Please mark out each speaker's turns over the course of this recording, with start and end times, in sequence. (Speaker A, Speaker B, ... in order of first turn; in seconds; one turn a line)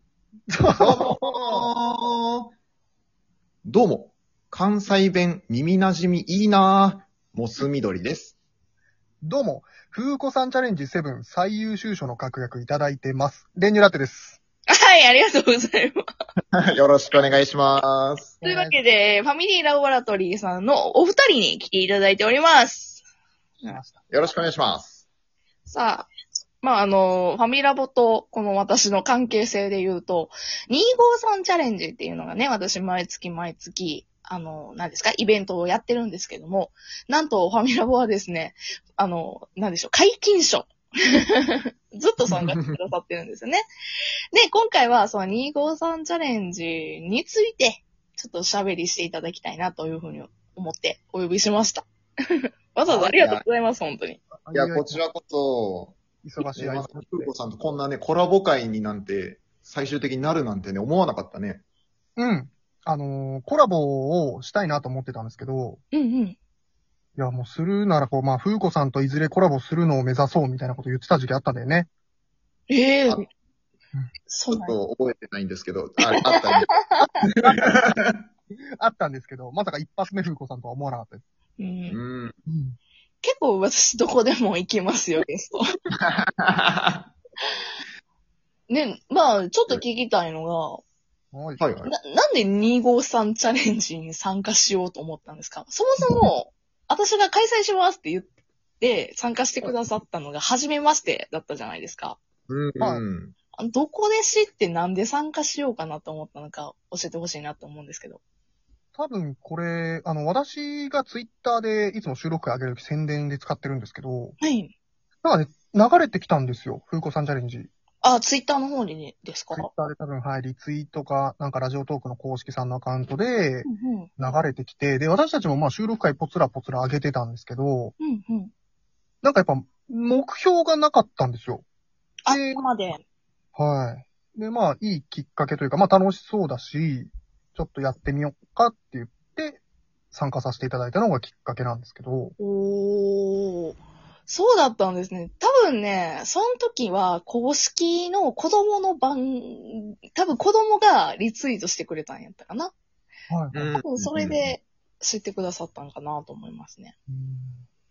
Speaker A: 0.5-1.7
Speaker B: 0.8-2.5
Speaker B: 3.6-8.3
Speaker A: 9.2-14.4
Speaker C: 14.7-16.0
Speaker B: 16.5-18.3
Speaker A: 18.4-18.8
Speaker C: 18.4-23.0
Speaker A: 23.6-24.0
Speaker B: 24.1-25.1
Speaker C: 25.6-43.6
Speaker B: 42.3-42.6
Speaker C: 44.3-54.2
Speaker B: 52.9-53.4
Speaker A: 54.4-55.0
Speaker B: 54.5-61.6
Speaker A: 56.2-57.3
Speaker A: 62.2-65.8
Speaker C: 65.9-66.4
Speaker A: 67.2-71.9
Speaker C: 72.7-73.3
Speaker C: 74.3-74.7
Speaker B: 74.5-78.2
Speaker C: 76.1-77.1
Speaker A: 77.4-77.8
Speaker A: 78.8-81.2
Speaker C: 81.6-82.0
Speaker B: 81.9-82.3
Speaker A: 82.5-82.8
Speaker C: 83.2-85.6
Speaker B: 86.0-87.1
Speaker C: 88.7-90.8
Speaker A: 91.3-91.6
Speaker B: 91.6-91.9
Speaker C: 91.8-102.2
Speaker B: 102.5-103.3
Speaker C: 103.5-108.2
Speaker A: 108.9-114.3
Speaker C: 114.4-114.7
Speaker A: 115.2-117.7
Speaker C: 118.0-119.7
Speaker A: 119.5-127.9
Speaker C: 123.7-124.3
Speaker C: 128.0-128.5
Speaker A: 129.2-131.6
Speaker C: 132.2-133.0
Speaker A: 132.3-132.7
Speaker A: 133.6-142.3
Speaker C: 142.4-152.7
Speaker A: 153.3-153.6
Speaker B: 153.5-154.5
Speaker C: 153.8-156.9
Speaker A: 157.1-157.6